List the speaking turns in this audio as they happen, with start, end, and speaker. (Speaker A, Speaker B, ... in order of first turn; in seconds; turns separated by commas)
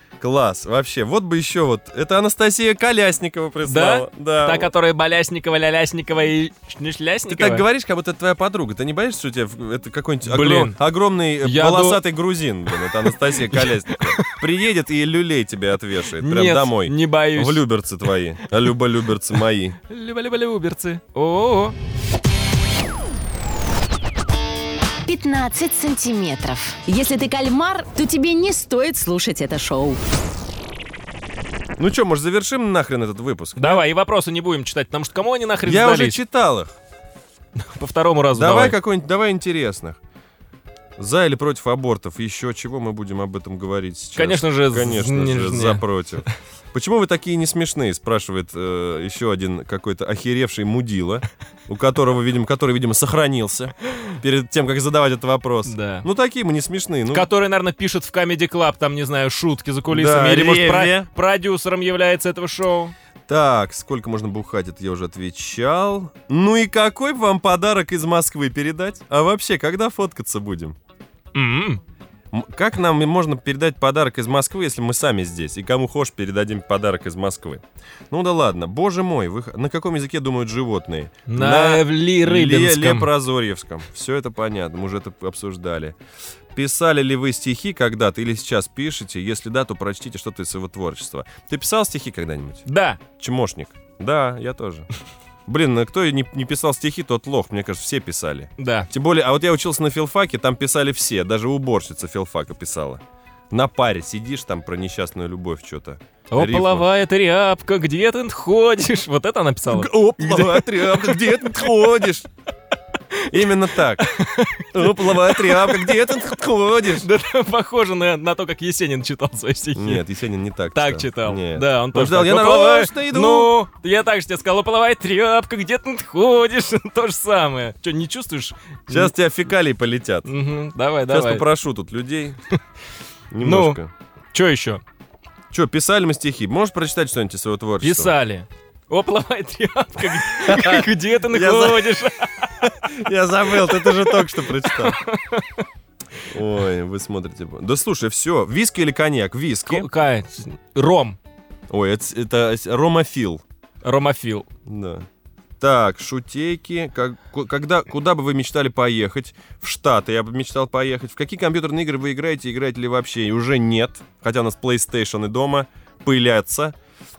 Speaker A: 0.2-4.7, Speaker B: 3.7-7.7, Speaker A: 7.3-19.8, Speaker B: 10.2-10.8, Speaker B: 11.4-12.0, Speaker B: 13.4-14.4, Speaker B: 16.2-17.6, Speaker B: 19.8-21.8, Speaker C: 25.1-30.0, Speaker A: 31.8-33.8, Speaker B: 33.6-36.2, Speaker A: 35.6-36.8, Speaker B: 37.6-38.8, Speaker A: 38.3-40.0, Speaker A: 41.0-57.3, Speaker B: 44.1-45.8, Speaker B: 55.7-56.1, Speaker B: 57.1-62.9, Speaker A: 59.9-61.1, Speaker A: 63.3-70.8, Speaker B: 71.3-71.8, Speaker A: 72.3-86.0, Speaker B: 81.3-83.1, Speaker A: 86.5-94.9, Speaker B: 92.7-93.0, Speaker A: 95.5-106.9, Speaker B: 98.6-98.9, Speaker B: 106.3-111.7, Speaker A: 109.7-112.3, Speaker B: 113.1-116.1, Speaker A: 113.3-117.1, Speaker B: 116.9-120.0, Speaker A: 119.8-123.5, Speaker B: 120.7-129.1, Speaker A: 128.9-130.3, Speaker B: 130.2-131.5, Speaker A: 131.1-132.4, Speaker A: 133.3-133.9, Speaker B: 133.4-133.8, Speaker B: 134.3-134.8, Speaker A: 135.5-138.2, Speaker B: 137.8-142.5, Speaker A: 140.2-142.0, Speaker A: 142.6-145.0, Speaker B: 143.5-145.7, Speaker A: 146.2-149.9, Speaker B: 149.7-151.2, Speaker A: 151.7-153.4, Speaker B: 153.8-154.5, Speaker A: 154.7-155.1, Speaker A: 155.6-166.8